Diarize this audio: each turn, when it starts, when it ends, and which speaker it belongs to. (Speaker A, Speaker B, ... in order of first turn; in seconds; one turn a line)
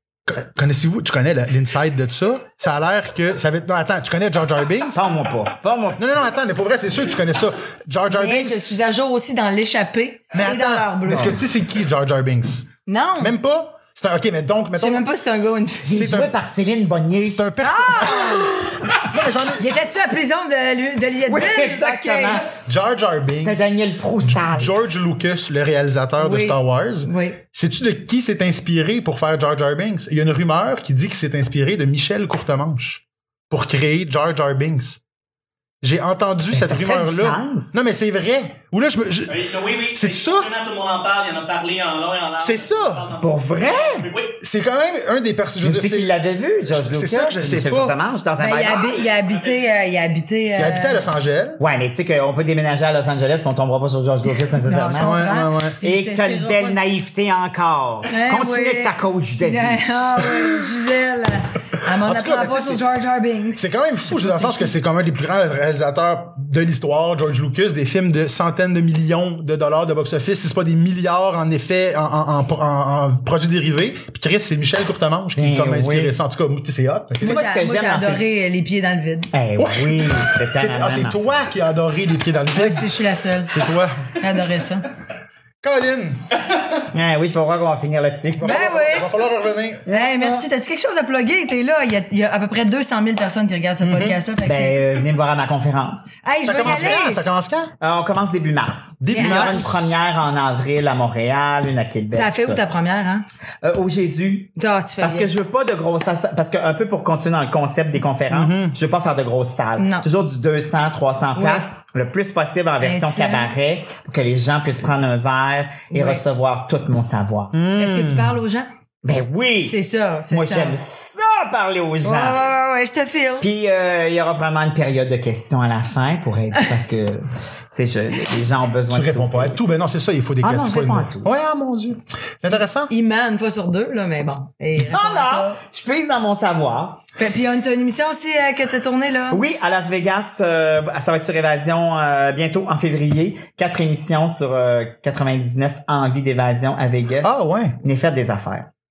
Speaker A: 0.3-5.1
Speaker B: 4.9-6.0
Speaker A: 6.0-8.7
Speaker C: 8.1-11.4
Speaker A: 10.3-12.7
Speaker C: 12.9-13.3
Speaker A: 13.2-15.1
Speaker C: 14.8-16.1
Speaker B: 15.9-17.4
Speaker A: 15.9-16.3
Speaker A: 17.2-18.5
Speaker C: 17.6-18.7
Speaker A: 19.0-19.7
Speaker C: 19.6-22.5
Speaker B: 21.3-22.6
Speaker A: 22.6-23.6
Speaker B: 23.4-24.8
Speaker A: 24.2-35.0
Speaker C: 26.2-27.4
Speaker A: 35.8-40.5
Speaker B: 36.5-37.8
Speaker D: 39.3-44.4
Speaker A: 42.4-43.1
Speaker B: 43.2-44.1
Speaker A: 44.4-46.1
Speaker B: 45.6-49.0
Speaker A: 46.7-48.0
Speaker C: 48.4-51.0
Speaker D: 49.3-49.6
Speaker A: 50.6-51.6
Speaker B: 51.6-60.3
Speaker C: 54.6-56.8
Speaker A: 55.0-55.8
Speaker C: 58.1-64.7
Speaker A: 62.0-62.8
Speaker A: 63.5-77.3
Speaker B: 75.4-76.1
Speaker B: 77.2-78.2
Speaker C: 77.2-79.3
Speaker B: 79.3-81.2
Speaker A: 79.6-82.9
Speaker C: 82.5-83.6
Speaker A: 83.5-84.2
Speaker C: 84.2-84.9
Speaker A: 85.6-86.3
Speaker B: 86.9-88.7
Speaker A: 88.4-89.9
Speaker C: 88.4-89.1
Speaker B: 89.9-90.5
Speaker C: 89.9-94.9
Speaker A: 93.8-94.2
Speaker B: 94.4-96.1
Speaker C: 96.2-97.2
Speaker A: 96.4-97.7
Speaker B: 97.8-102.6
Speaker A: 99.0-100.0
Speaker C: 99.1-99.7
Speaker C: 102.1-103.2
Speaker B: 103.6-117.6
Speaker C: 104.6-105.3
Speaker A: 108.3-108.8
Speaker C: 109.8-110.1
Speaker C: 111.4-111.7
Speaker C: 112.8-113.5
Speaker C: 115.9-116.2
Speaker A: 117.5-118.4
Speaker C: 117.8-118.7
Speaker B: 119.0-119.8
Speaker C: 119.7-120.8
Speaker B: 120.3-122.5
Speaker C: 122.0-123.5
Speaker B: 123.4-129.6
Speaker A: 128.9-132.9
Speaker B: 130.4-131.3
Speaker C: 132.9-135.6
Speaker B: 134.9-137.0
Speaker C: 137.2-139.4
Speaker B: 139.3-148.7
Speaker A: 147.2-147.8